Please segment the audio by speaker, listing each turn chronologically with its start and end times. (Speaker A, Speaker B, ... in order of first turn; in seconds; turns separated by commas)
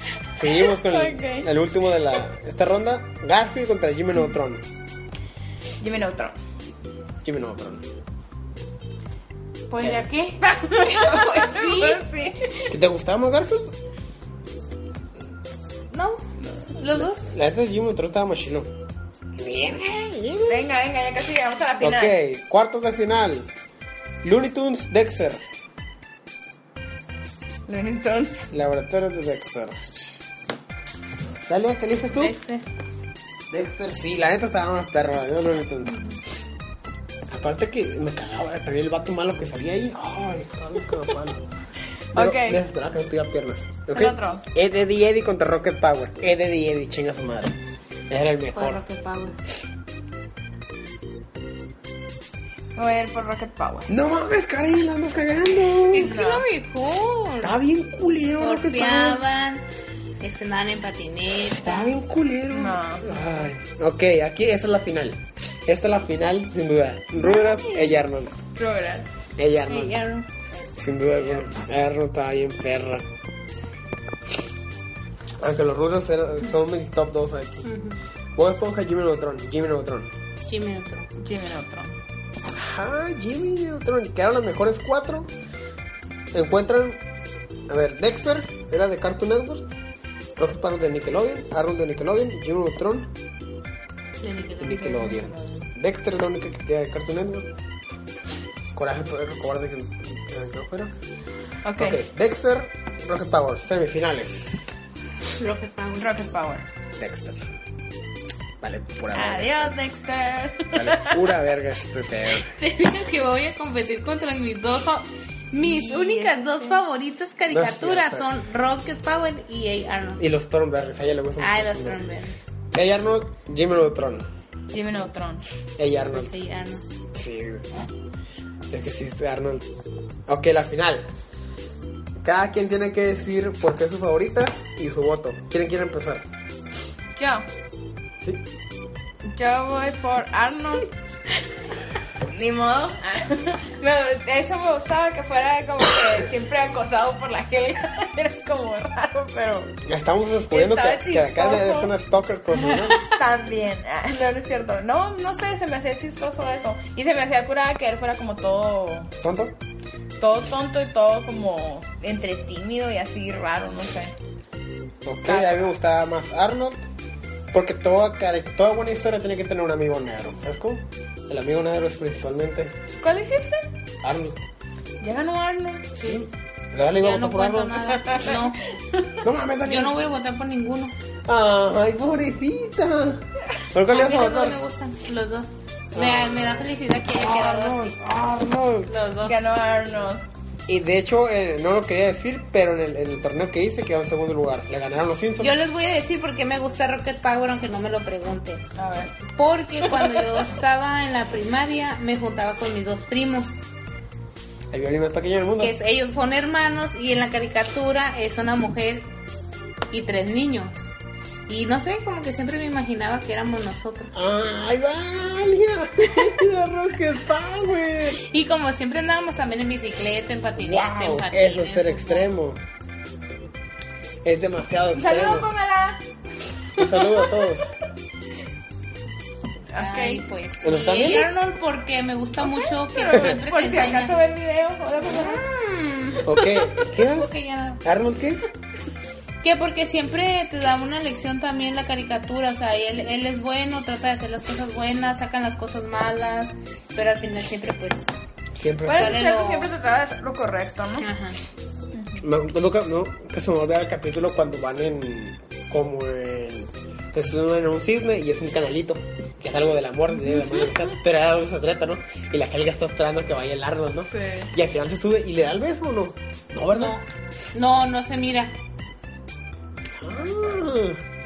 Speaker A: 0.3-4.6, Speaker B: 0.6-1.5, Speaker B: 5.8-6.3, Speaker A: 7.2-7.8, Speaker C: 9.7-12.0, Speaker B: 9.8-12.7, Speaker A: 12.7-13.7, Speaker C: 15.9-16.2, Speaker B: 16.4-16.7, Speaker C: 16.8-17.3, Speaker A: 16.9-18.7, Speaker A: 19.4-20.6, Speaker B: 20.5-22.1, Speaker A: 21.8-23.5, Speaker A: 24.2-25.4, Speaker B: 27.7-28.5, Speaker A: 28.5-30.2, Speaker A: 31.5-32.3, Speaker C: 32.1-32.6, Speaker A: 33.5-36.0, Speaker A: 37.3-41.4, Speaker B: 42.1-42.6, Speaker A: 42.1-47.6, Speaker B: 43.9-44.4, Speaker A: 48.1-48.8, Speaker C: 48.5-49.4, Speaker B: 52.8-53.9, Speaker A: 53.9-56.1, Speaker C: 55.9-57.5, Speaker B: 55.9-56.5, Speaker A: 57.4-59.2, Speaker C: 58.4-59.6, Speaker C: 60.2-61.9, Speaker A: 61.4-68.4, Speaker B: 62.5-63.2, Speaker C: 67.2-68.0, Speaker B: 68.5-69.1, Speaker A: 69.4-70.0, Speaker C: 69.7-70.3, Speaker A: 70.8-73.1, Speaker A: 75.4-77.7, Speaker C: 77.7-78.0, Speaker A: 78.3-80.1, Speaker C: 80.5-81.1, Speaker B: 81.2-81.9, Speaker A: 82.5-85.3, Speaker A: 86.3-87.0, Speaker A: 87.7-89.6, Speaker A: 90.4-93.1, Speaker C: 94.2-95.4, Speaker A: 94.6-97.5, Speaker A: 98.7-100.9, Speaker B: 101.6-102.0, Speaker A: 101.8-104.7, Speaker C: 105.4-106.2, Speaker B: 105.9-106.7, Speaker A: 107.0-107.5, Speaker A: 108.6-109.7, Speaker B: 109.1-111.4, Speaker A: 110.7-112.5, Speaker C: 112.4-120.2, Speaker B: 115.6-116.8, Speaker A: 117.5-118.3, Speaker A: 120.2-122.0, Speaker C: 121.4-122.4, Speaker A: 122.7-124.3, Speaker B: 124.7-125.4, Speaker A: 125.8-126.3, Speaker C: 126.1-126.8, Speaker A: 127.1-127.7, Speaker A: 128.7-129.7, Speaker A: 130.3-131.1, Speaker A: 132.2-136.2, Speaker B: 137.2-137.5, Speaker B: 139.3-140.9, Speaker B: 142.2-149.8, Speaker A: 149.8-153.1, Speaker B: 150.5-151.9, Speaker B: 152.5-159.1, Speaker A: 159.2-159.6, Speaker B: 160.2-164.1, Speaker A: 165.0-166.8, Speaker B: 165.3-165.6, Speaker A: 167.5-172.8, Speaker B: 173.0-173.6, Speaker A: 174.0-174.4, Speaker B: 175.0-175.9, Speaker A: 176.0-178.2, Speaker C: 176.0-176.2, Speaker C: 177.0-178.7, Speaker A: 179.2-179.9, Speaker C: 179.6-180.9, Speaker A: 181.3-184.6, Speaker C: 183.9-188.0, Speaker A: 185.9-188.9, Speaker C: 188.9-189.4, Speaker B: 189.2-190.2, Speaker A: 190.7-195.6, Speaker C: 195.4-198.6, Speaker B: 198.7-199.2, Speaker C: 199.3-203.6, Speaker A: 204.7-205.8, Speaker C: 205.6-209.1, Speaker C: 209.9-210.9, Speaker C: 211.5-214.1, Speaker A: 214.1-218.2, Speaker C: 216.1-216.4, Speaker C: 218.1-222.3, Speaker A: 220.6-222.6, Speaker A: 224.2-225.5, Speaker B: 224.9-226.0, Speaker A: 226.7-227.7, Speaker B: 229.7-230.2, Speaker C: 229.7-234.2, Speaker A: 230.6-231.3, Speaker B: 232.4-235.4, Speaker C: 235.0-237.8, Speaker A: 236.2-237.3, Speaker A: 237.8-238.4, Speaker C: 239.4-248.1, Speaker A: 248.6-249.2, Speaker B: 248.8-251.1, Speaker C: 248.9-249.7, Speaker C: 251.0-251.4, Speaker B: 251.9-252.2, Speaker A: 252.2-267.0, Speaker B: 264.1-264.5, Speaker C: 266.7-268.5, Speaker A: 270.0-271.0